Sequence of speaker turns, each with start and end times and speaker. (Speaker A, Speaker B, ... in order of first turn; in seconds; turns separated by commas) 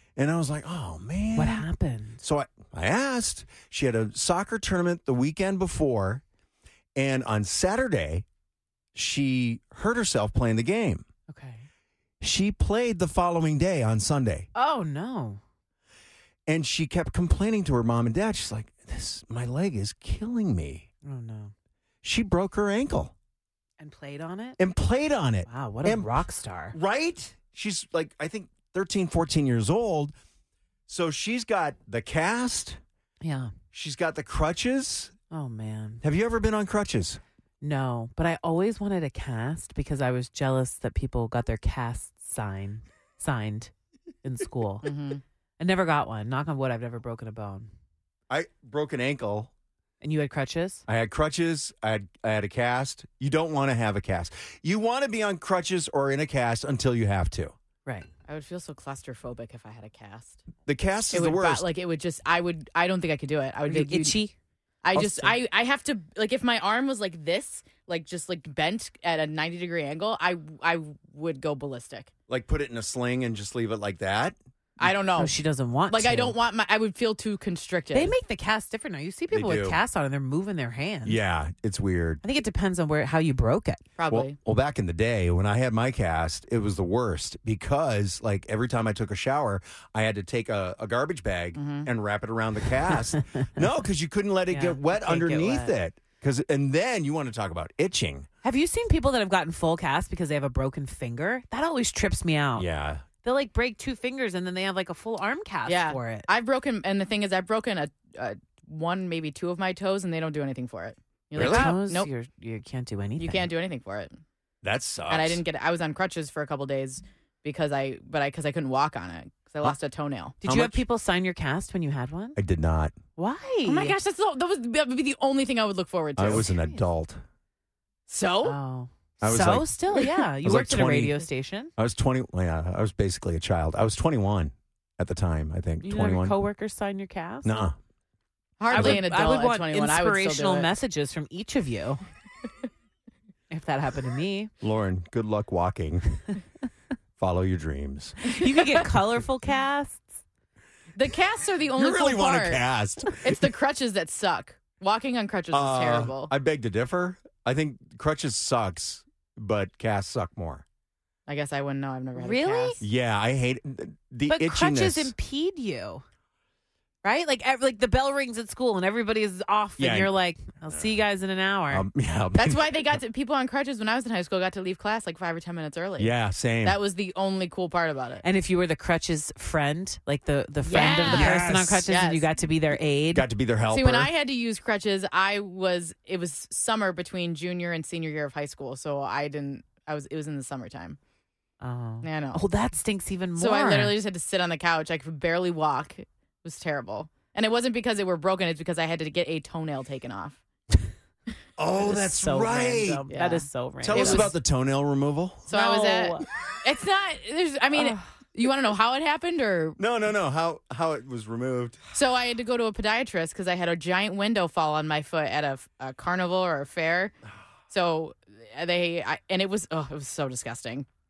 Speaker A: 0.2-1.7, Speaker B: 1.3-2.2, Speaker A: 2.2-6.2, Speaker A: 7.0-8.2, Speaker A: 8.9-11.0, Speaker B: 11.3-11.6, Speaker A: 12.2-14.5, Speaker B: 14.5-15.4, Speaker A: 16.5-20.9, Speaker B: 21.0-21.5, Speaker A: 22.0-23.1, Speaker B: 23.8-24.6, Speaker A: 24.6-26.1, Speaker B: 25.5-26.8, Speaker A: 26.7-30.1, Speaker A: 30.9-32.8, Speaker B: 33.2-33.5, Speaker A: 33.7-35.1, Speaker B: 35.3-36.0, Speaker A: 36.0-37.2, Speaker B: 37.6-43.7, Speaker B: 44.2-44.9, Speaker C: 44.8-45.2, Speaker B: 45.6-47.7, Speaker A: 48.3-49.5, Speaker B: 50.0-50.8, Speaker A: 50.9-57.5, Speaker C: 58.3-60.4, Speaker A: 60.7-61.7, Speaker C: 61.1-64.2, Speaker B: 63.7-64.3, Speaker C: 64.8-72.1, Speaker A: 64.9-65.4, Speaker A: 72.3-74.4, Speaker C: 74.8-75.3, Speaker B: 75.2-76.4, Speaker C: 75.9-78.2, Speaker B: 77.9-81.2, Speaker A: 79.3-79.8, Speaker A: 81.0-82.2, Speaker B: 82.2-83.8, Speaker C: 84.0-84.4, Speaker A: 84.1-98.3, Speaker C: 91.5-91.9, Speaker B: 94.5-95.7, Speaker B: 98.4-102.7, Speaker A: 102.6-103.0, Speaker B: 103.2-106.3, Speaker C: 105.7-112.1, Speaker A: 111.3-111.7, Speaker B: 111.4-113.5, Speaker C: 113.2-114.2, Speaker A: 114.6-115.4, Speaker C: 115.1-120.4, Speaker B: 120.4-122.4, Speaker A: 120.4-120.8, Speaker A: 122.3-122.9, Speaker B: 123.2-124.0, Speaker C: 123.7-126.5, Speaker A: 126.2-127.2, Speaker B: 126.3-126.8, Speaker C: 128.1-128.6, Speaker B: 128.4-131.7, Speaker A: 129.2-129.7, Speaker A: 130.4-131.2, Speaker A: 131.8-136.3, Speaker B: 135.8-137.6, Speaker A: 137.4-137.8, Speaker C: 138.6-140.7, Speaker B: 138.7-142.0, Speaker A: 138.7-139.0, Speaker B: 143.5-144.5, Speaker A: 144.6-146.3, Speaker A: 147.2-148.3, Speaker B: 148.2-150.1, Speaker C: 151.0-152.6, Speaker A: 151.8-153.4, Speaker C: 153.1-156.3, Speaker A: 155.5-160.6, Speaker C: 161.3-162.8, Speaker B: 162.2-162.8, Speaker A: 162.8-165.1, Speaker B: 164.3-166.0, Speaker B: 167.0-171.8, Speaker A: 169.8-170.1, Speaker A: 171.7-172.7, Speaker C: 172.3-176.1, Speaker A: 176.0-176.8, Speaker C: 176.6-178.2, Speaker B: 178.2-183.2, Speaker C: 180.6-182.3, Speaker A: 180.7-181.8, Speaker A: 183.1-184.1, Speaker C: 183.7-191.0, Speaker B: 191.6-194.0, Speaker C: 192.0-192.4, Speaker C: 193.4-200.4, Speaker A: 201.6-203.0, Speaker B: 201.8-204.3, Speaker C: 203.1-204.3, Speaker A: 203.8-205.5, Speaker C: 205.5-209.8, Speaker B: 205.5-206.3, Speaker B: 207.7-208.0, Speaker A: 209.8-211.8, Speaker C: 211.9-217.1, Speaker C: 217.7-220.9